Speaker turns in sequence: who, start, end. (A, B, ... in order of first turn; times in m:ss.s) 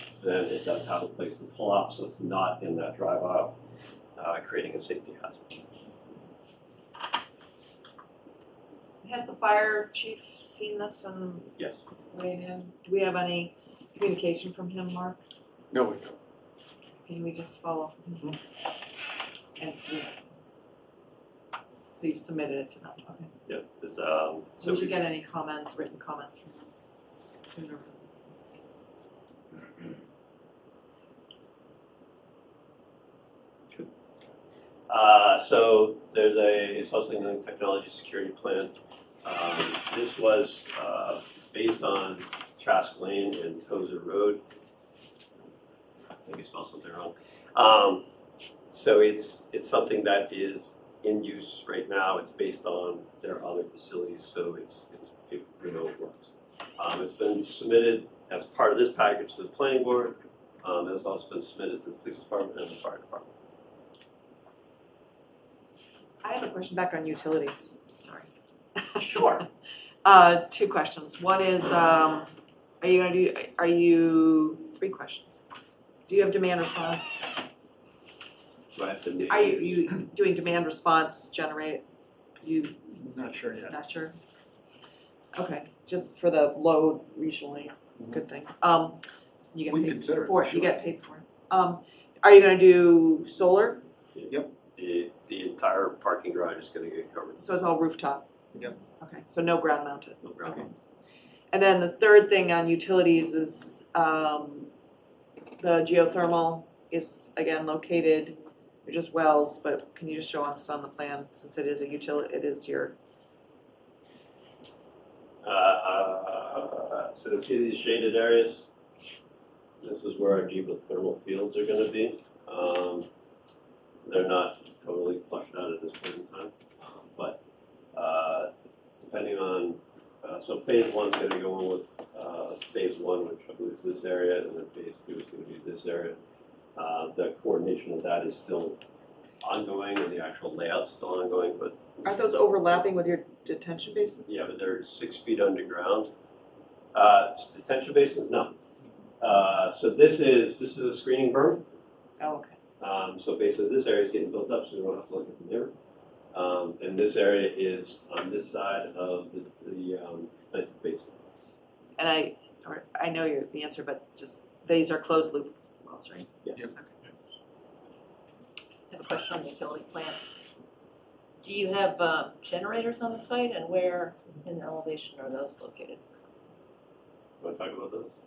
0:00.2-0:03.6 A
0:04.2-0:05.4 A
0:09.0-0:11.6 B
0:11.6-0:11.8 A
0:12.1-0:15.2 B
0:15.7-0:16.2 C
0:17.0-0:18.4 B
0:19.6-0:20.3 B
0:22.0-0:23.3 B
0:23.5-0:25.0 A
0:24.6-0:26.6 B
0:27.5-0:28.1 B
0:34.9-0:44.4 A
0:46.2-0:48.0 A
0:48.7-1:03.3 A
1:06.2-1:09.4 B
1:10.0-1:12.3 B
1:12.8-1:15.4 B
1:16.1-1:17.4 B
1:18.7-1:19.8 A
1:19.3-1:21.8 B
1:22.4-1:22.8 B
1:22.9-1:23.8 C
1:23.7-1:24.2 B
1:25.3-1:29.0 B
1:29.5-1:33.8 B
1:29.7-1:30.8 C
1:34.1-1:37.5 A
1:37.4-1:38.3 B
1:38.9-1:40.7 B
1:40.2-1:40.7 A
1:41.5-1:44.7 B
1:45.6-1:52.9 B
1:55.4-1:58.6 A
1:59.8-2:03.1 A
2:04.0-2:07.4 A
2:07.9-2:08.5 A
2:09.0-2:16.2 A
2:16.8-2:18.8 A
2:19.4-2:21.8 A
2:22.0-2:24.5 B
2:24.3-2:26.1 A
2:26.9-2:28.6 A
2:29.2-2:31.6 A
2:32.2-2:32.6 B
2:32.8-2:35.7 A
2:36.3-2:41.2 A
2:42.0-2:46.9 B
2:48.9-2:50.2 D
2:51.4-2:56.0 D
2:57.4-2:58.1 A